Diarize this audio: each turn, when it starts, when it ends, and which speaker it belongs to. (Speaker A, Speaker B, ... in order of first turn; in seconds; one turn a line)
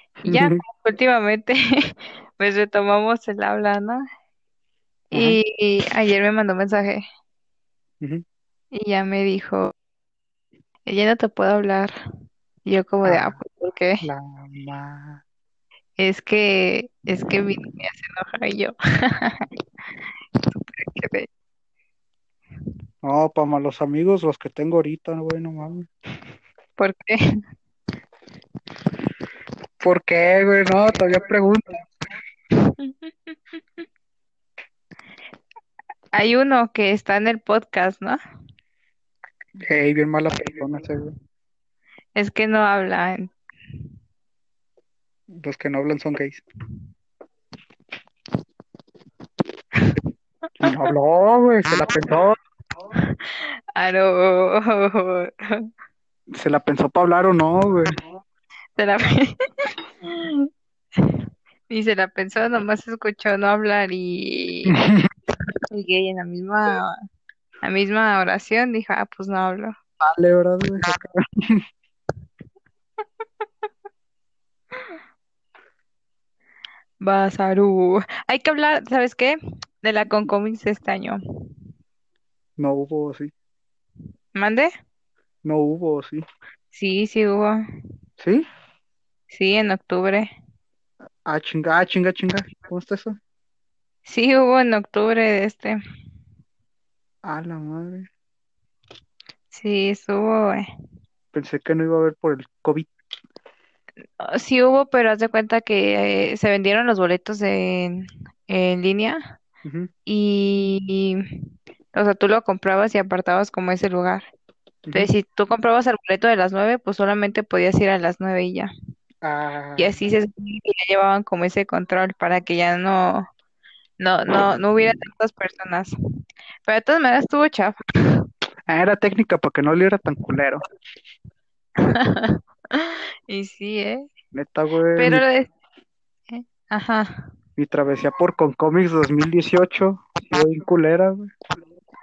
Speaker A: 0.2-0.6
Speaker B: 0.2-4.0
Speaker A: 5.1-5.4
Speaker B: 5.1-7.0
Speaker B: 8.7-9.7
Speaker B: 10.9-11.9
Speaker B: 12.7-14.0
Speaker A: 13.1-13.4
Speaker A: 14.0-15.2
Speaker B: 16.0-19.5
Speaker B: 20.5-21.3
Speaker A: 23.0-25.9
Speaker B: 26.8-27.4
Speaker A: 29.8-31.9
Speaker B: 32.6-33.1
Speaker B: 36.1-38.2
Speaker A: 39.7-41.1
Speaker B: 42.1-43.3
Speaker A: 45.3-46.4
Speaker A: 50.6-52.4
Speaker B: 53.0-55.7
Speaker A: 56.3-58.0
Speaker B: 58.8-60.5
Speaker B: 61.0-64.7
Speaker A: 64.7-65.1
Speaker B: 65.7-67.0
Speaker B: 67.6-69.8
Speaker A: 70.0-71.6
Speaker B: 77.0-81.2
Speaker A: 82.6-83.3
Speaker B: 84.3-84.7
Speaker A: 85.4-86.2
Speaker B: 86.7-87.6
Speaker A: 88.2-88.5
Speaker B: 89.3-90.3
Speaker A: 91.3-93.2
Speaker B: 94.0-95.8
Speaker A: 97.2-98.1
Speaker B: 99.5-100.7
Speaker A: 101.3-102.9
Speaker B: 104.2-109.3
Speaker A: 109.6-109.9
Speaker B: 110.0-111.2
Speaker B: 111.9-114.2
Speaker A: 114.8-115.1
Speaker B: 114.9-118.7
Speaker A: 119.2-120.0
Speaker B: 119.8-123.3
Speaker B: 124.0-125.9
Speaker B: 126.7-128.2
Speaker A: 128.7-130.6
Speaker B: 131.8-134.1
Speaker A: 134.3-135.2
Speaker B: 134.9-135.5
Speaker B: 136.3-137.2
Speaker A: 137.6-141.3